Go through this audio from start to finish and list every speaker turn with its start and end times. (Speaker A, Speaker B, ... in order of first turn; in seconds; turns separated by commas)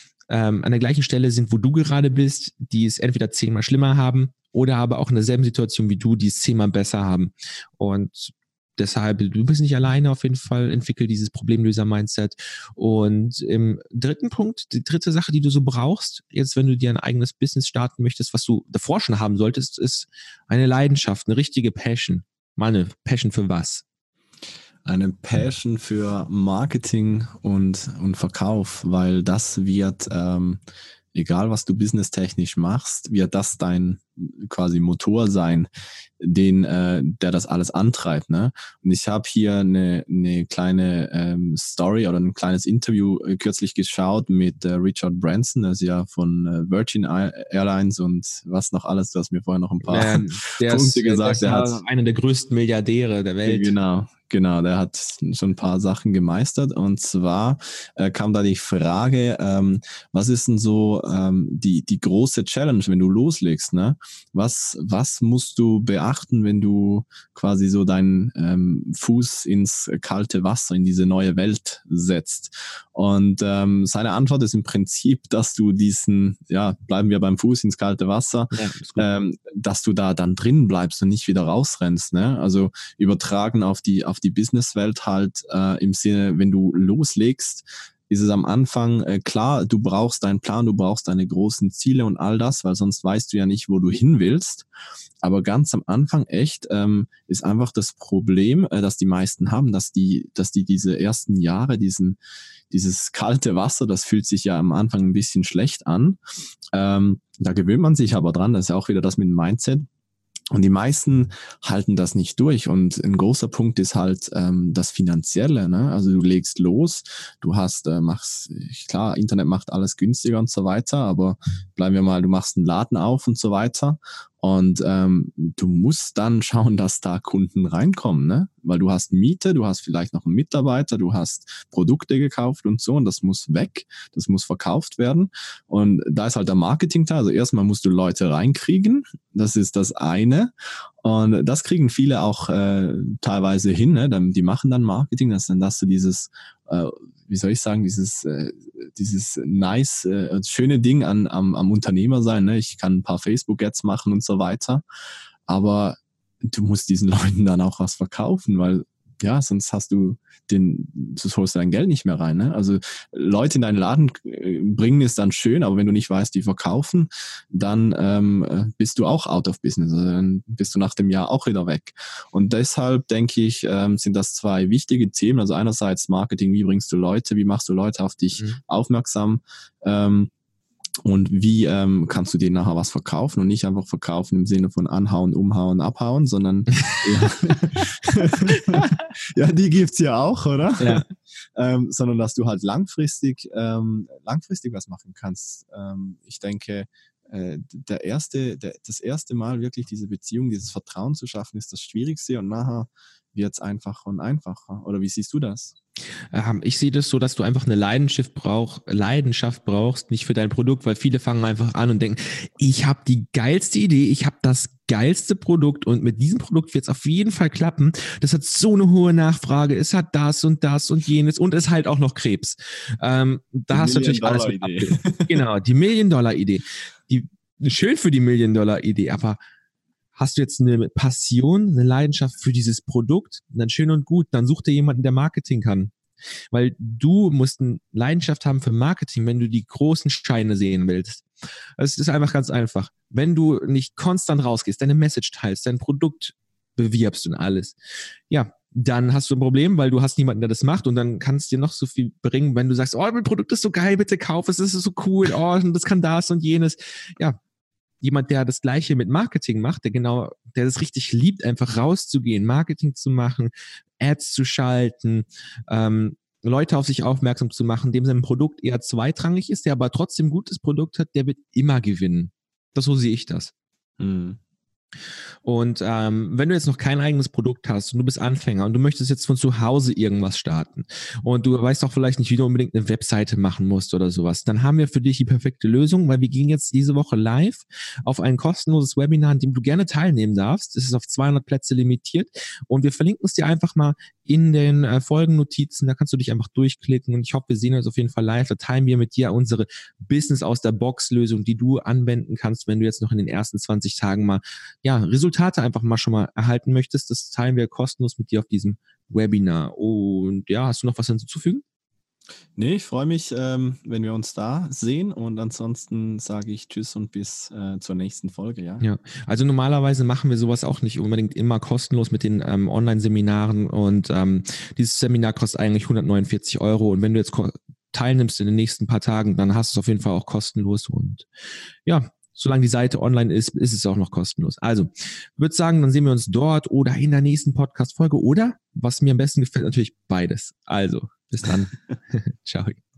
Speaker A: 0.3-23.8, Speaker B: 24.8-30.6, Speaker B: 31.1-35.7, Speaker B: 36.2-51.8, Speaker A: 49.9-53.8, Speaker B: 53.4-94.7, Speaker A: 78.5-79.1, Speaker B: 95.2-102.2, Speaker B: 102.7-106.2, Speaker B: 106.7-109.8, Speaker B: 110.5-154.8, Speaker B: 155.5-180.3, Speaker B: 181.0-205.7, Speaker A: 188.5-189.0, Speaker A: 190.8-191.0, Speaker A: 206.3-229.4, Speaker B: 223.7-225.4, Speaker A: 230.2-235.9, Speaker A: 236.5-241.2, Speaker A: 241.8-247.8, Speaker A: 248.3-257.4, Speaker A: 258.0-273.5, Speaker B: 274.0-274.4, Speaker A: 275.4-311.6, Speaker B: 312.6-318.8, Speaker A: 318.8-331.2, Speaker A: 331.9-342.8